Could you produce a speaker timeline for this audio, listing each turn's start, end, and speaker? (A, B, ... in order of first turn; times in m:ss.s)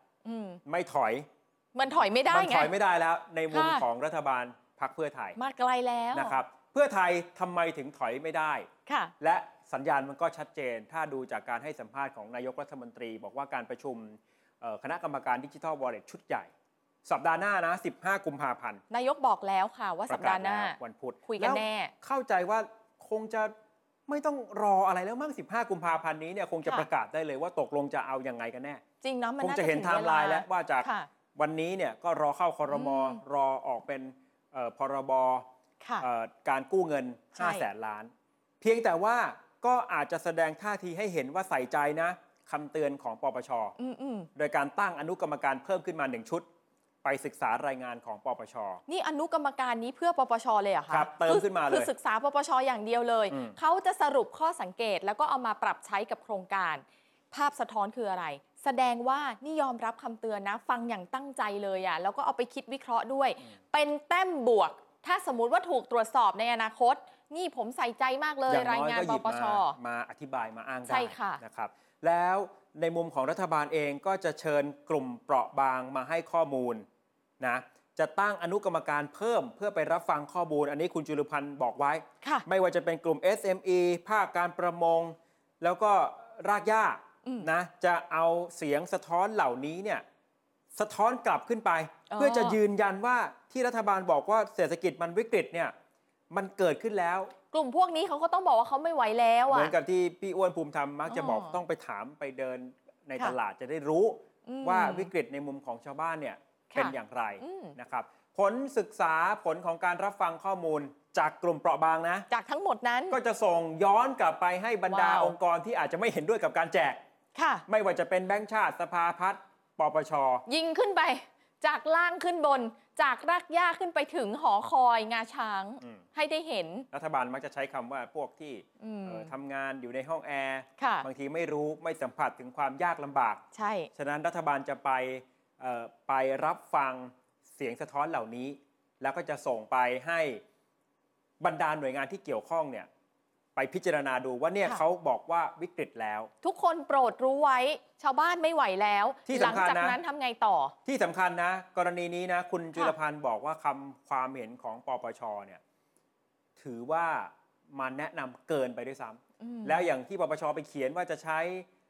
0:00.2-0:00.6 A
0:00.7-0:01.3 B
0:01.8-0:02.7 A
0:02.3-0:05.4 B
0:03.5-0:03.8 A
0:05.4-0:06.4 A
0:06.1-0:16.5 B
0:08.9-0:09.1 A
0:17.0-0:18.8 B
0:18.9-0:21.9 A
0:20.1-0:23.5 B
0:24.1-0:28.8 B
0:29.0-0:31.1 A
0:29.4-0:35.5 B
0:32.7-0:33.2 A
0:35.8-0:36.1 A
0:36.0-0:43.8 B
0:37.4-0:37.7 A
0:43.8-0:44.3 A
0:44.4-0:46.5 B
0:47.0-0:48.8 B
0:48.9-1:09.8 A
0:50.9-0:51.9 B
0:53.3-0:53.6 B
1:08.5-1:16.9 B
1:10.9-1:11.4 A
1:17.4-1:30.0 B
1:30.7-1:35.7 B
1:32.1-1:32.6 A
1:36.3-1:37.3 B
1:37.5-1:39.7 A
1:39.5-1:52.3 B
1:41.1-1:41.6 A
1:44.5-1:45.1 A
1:46.7-1:47.8 A
1:52.3-1:53.2 A
1:53.1-1:57.0 B
1:54.9-1:55.4 A
1:57.4-1:57.6 A
1:57.7-2:00.4 B
2:00.5-2:06.9 A
2:05.8-2:06.1 B
2:06.9-2:13.4 B
2:08.8-2:09.3 A
2:10.8-2:11.1 A
2:13.5-2:13.9 A
2:14.0-2:20.4 B
2:21.4-2:22.9 B
2:23.6-2:26.3 B
2:26.4-2:30.7 A
2:29.3-2:30.0 B
2:30.8-2:35.6 B
2:36.6-2:41.7 B
2:39.4-2:39.9 A